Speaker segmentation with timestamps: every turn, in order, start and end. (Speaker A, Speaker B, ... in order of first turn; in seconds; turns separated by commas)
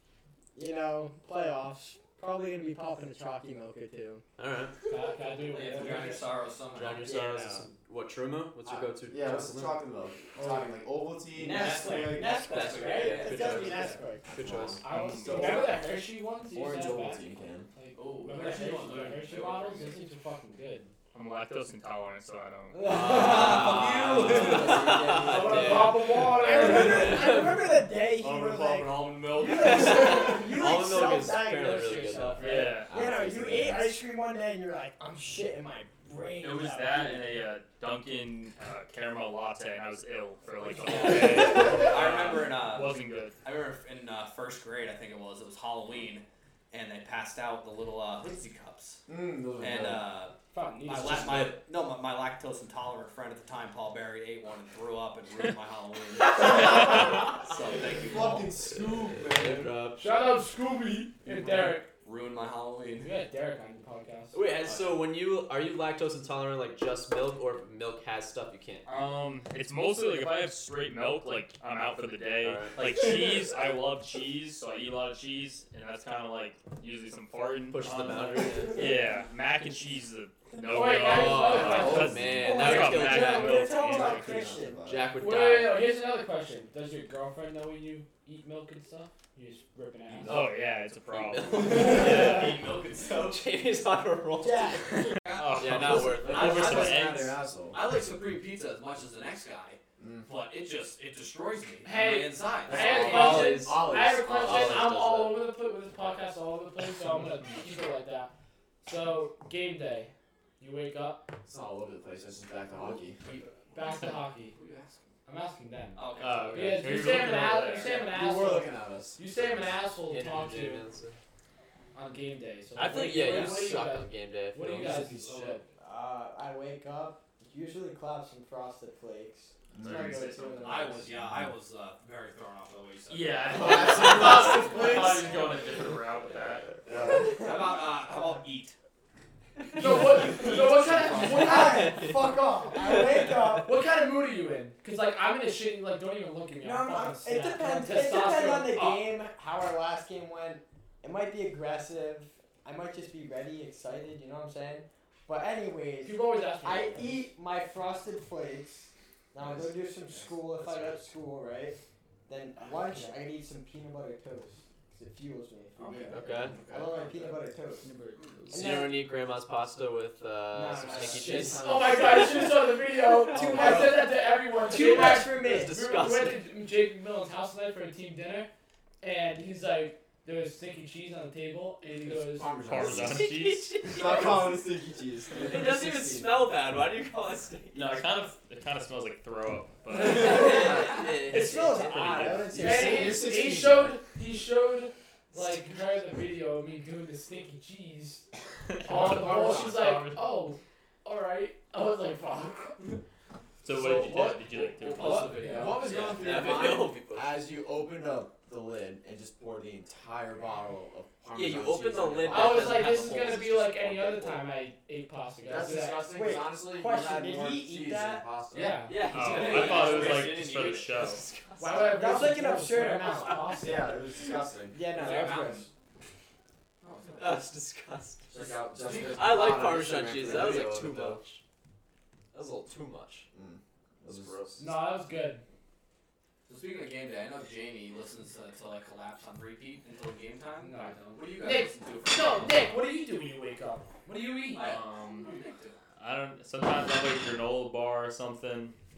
Speaker A: 0.5-4.2, Speaker B: 4.4-4.8, Speaker C: 4.9-6.3, Speaker D: 5.5-7.1, Speaker B: 6.7-9.8, Speaker A: 7.0-7.7, Speaker D: 8.6-8.9, Speaker E: 9.1-12.4, Speaker A: 11.3-14.3, Speaker B: 11.5-14.8, Speaker D: 11.5-11.9, Speaker D: 12.5-14.0, Speaker E: 14.3-15.9, Speaker C: 14.8-20.9, Speaker F: 14.9-15.6, Speaker E: 16.4-17.7, Speaker D: 17.9-20.0, Speaker E: 18.3-19.1, Speaker F: 21.1-23.0, Speaker B: 22.8-27.6, Speaker A: 22.8-37.3, Speaker E: 23.1-25.3, Speaker D: 23.1-25.4, Speaker C: 25.3-27.3, Speaker D: 28.2-30.4, Speaker B: 29.6-32.7, Speaker F: 32.4-32.9, Speaker E: 32.6-34.0, Speaker F: 36.4-43.4, Speaker D: 40.8-49.0, Speaker E: 49.1-50.1, Speaker D: 49.6-58.5, Speaker C: 50.5-51.6, Speaker E: 58.0-59.7, Speaker B: 58.8-60.1, Speaker C: 60.0-61.9, Speaker D: 61.3-63.1, Speaker C: 63.0-64.4, Speaker B: 64.3-68.9, Speaker F: 68.9-84.5, Speaker B: 72.4-72.8, Speaker B: 77.7-78.8, Speaker C: 80.6-82.7, Speaker B: 80.9-83.7, Speaker E: 81.7-82.4, Speaker A: 82.3-84.9, Speaker E: 83.7-85.1, Speaker B: 84.9-85.8, Speaker C: 85.2-90.4, Speaker E: 90.1-90.5, Speaker F: 90.3-92.0, Speaker B: 91.3-95.0, Speaker D: 91.8-93.2, Speaker A: 94.4-95.2, Speaker F: 95.2-97.4, Speaker D: 95.2-97.1, Speaker B: 95.6-96.8, Speaker E: 96.3-97.8, Speaker D: 97.7-103.5, Speaker E: 100.0-100.3, Speaker C: 101.8-108.3, Speaker B: 102.7-105.5, Speaker E: 102.8-104.9, Speaker C: 108.8-111.3, Speaker E: 111.4-113.2, Speaker D: 113.2-113.7, Speaker C: 113.7-114.6, Speaker D: 114.5-115.0, Speaker C: 115.2-120.8, Speaker D: 115.9-116.8, Speaker F: 116.2-118.0, Speaker E: 117.9-119.4, Speaker B: 120.1-121.2, Speaker C: 121.9-125.6, Speaker B: 122.8-124.9, Speaker E: 124.7-125.5, Speaker A: 125.8-131.2, Speaker E: 129.7-130.4, Speaker F: 129.8-130.7, Speaker D: 130.6-134.5, Speaker E: 131.2-131.5, Speaker F: 133.1-136.8, Speaker E: 133.6-134.7, Speaker E: 136.9-137.3, Speaker D: 137.2-138.8, Speaker B: 139.8-140.2, Speaker D: 139.8-141.7, Speaker C: 139.8-142.0, Speaker B: 141.1-143.7, Speaker A: 141.2-143.7, Speaker C: 143.6-148.8, Speaker A: 146.6-167.8, Speaker C: 156.0-157.2, Speaker C: 162.8-163.2, Speaker E: 165.9-167.3, Speaker B: 166.1-166.5, Speaker C: 167.8-168.1, Speaker B: 168.5-171.7, Speaker A: 168.5-169.0, Speaker A: 170.5-175.8, Speaker E: 171.1-172.2, Speaker C: 171.2-178.5, Speaker B: 173.5-174.0, Speaker B: 174.9-176.4, Speaker C: 179.0-182.9, Speaker E: 182.0-186.5, Speaker F: 182.6-183.7, Speaker B: 182.9-184.6, Speaker B: 185.3-188.0, Speaker F: 187.7-192.5, Speaker B: 190.1-192.3, Speaker A: 190.1-193.2, Speaker E: 192.0-194.0, Speaker C: 192.6-198.2, Speaker F: 198.7-200.2, Speaker C: 198.8-203.0, Speaker F: 203.6-205.6, Speaker C: 203.7-204.4, Speaker D: 204.1-206.9, Speaker C: 204.9-205.9, Speaker B: 204.9-207.4, Speaker E: 205.3-214.3, Speaker B: 211.3-213.9, Speaker C: 212.3-216.2, Speaker E: 215.4-218.8, Speaker A: 216.0-218.3, Speaker C: 218.5-220.0, Speaker D: 218.5-221.0, Speaker B: 218.9-222.1, Speaker F: 219.1-221.2, Speaker C: 221.6-224.2, Speaker A: 221.8-223.5, Speaker B: 223.3-223.6, Speaker E: 223.6-224.9, Speaker A: 224.7-225.7, Speaker D: 224.9-225.7, Speaker E: 226.8-227.3, Speaker D: 226.8-227.2, Speaker B: 227.2-228.3, Speaker E: 228.3-231.2, Speaker D: 228.8-229.6, Speaker B: 229.0-231.4, Speaker B: 232.3-233.3, Speaker E: 233.3-234.4, Speaker B: 234.0-234.8, Speaker C: 234.6-235.4, Speaker D: 236.4-242.6, Speaker C: 240.6-244.8, Speaker D: 244.6-245.8, Speaker F: 244.6-245.3, Speaker F: 246.0-248.7